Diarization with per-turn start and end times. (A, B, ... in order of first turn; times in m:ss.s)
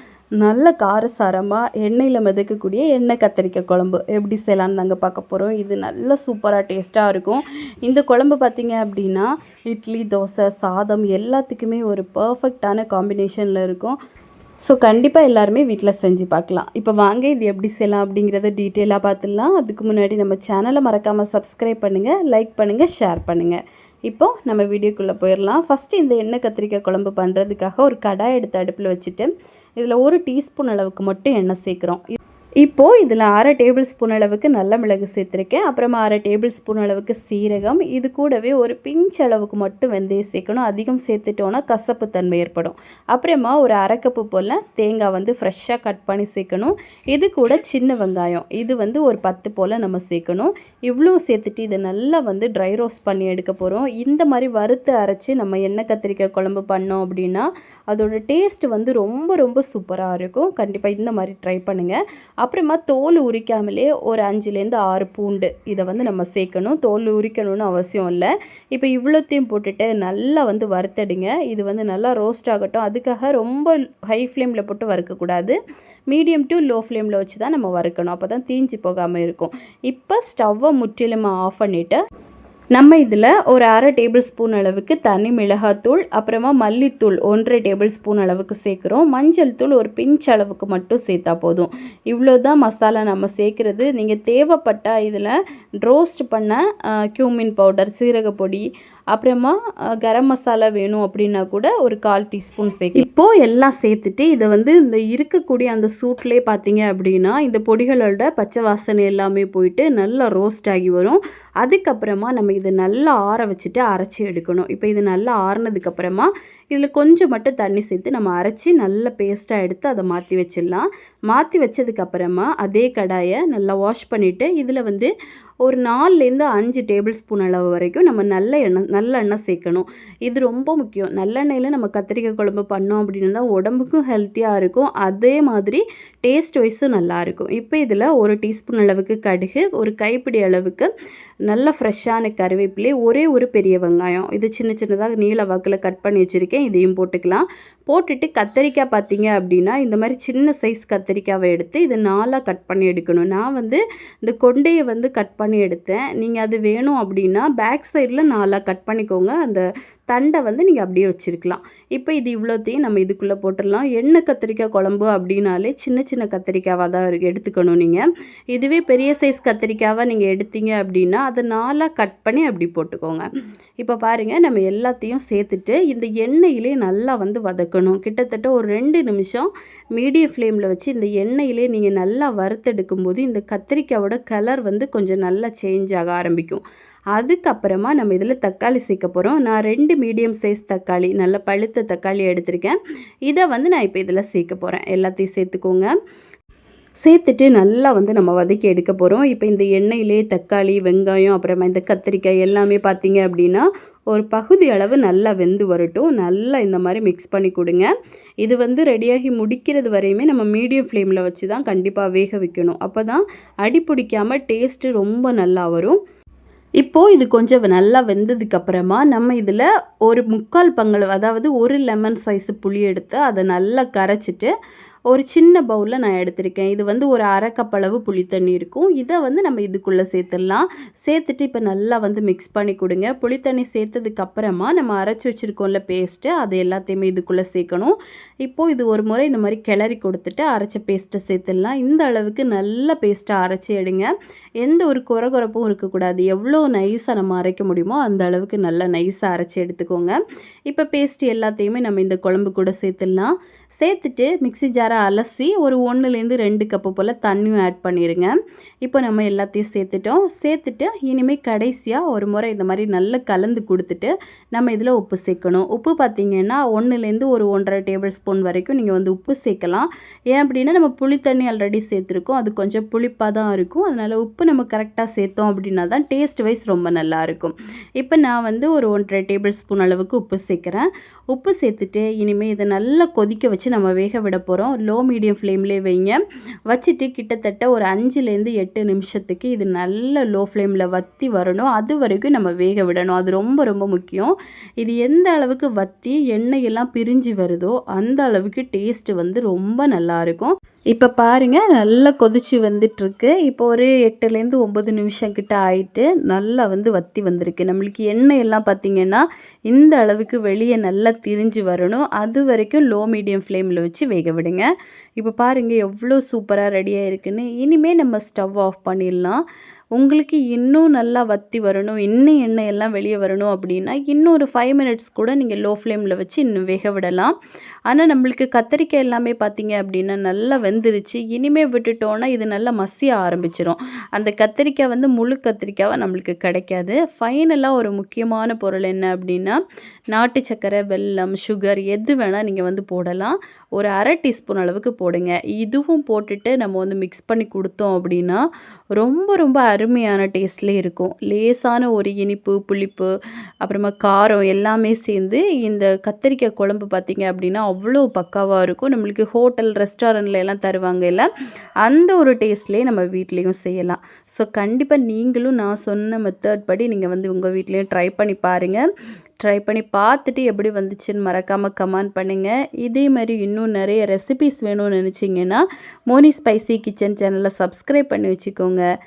0:00.4-0:14.0 A
0:14.7-0:32.0 A
0:32.6-1:15.6 A
1:16.1-1:22.0 A
1:22.8-2:05.1 A
2:05.6-2:20.9 A
2:21.5-2:53.3 A
2:53.8-3:06.6 A
3:07.2-3:15.9 A
3:17.0-3:27.9 A
3:28.4-3:36.0 A
3:36.8-3:44.5 A
3:45.1-4:04.1 A
4:04.6-5:14.7 A
5:15.2-5:19.4 A
5:20.0-5:27.3 A
5:27.9-5:39.6 A
5:40.1-5:48.4 A
5:48.9-5:53.1 A
5:53.6-6:01.3 A
6:01.8-6:08.9 A
6:09.4-6:18.8 A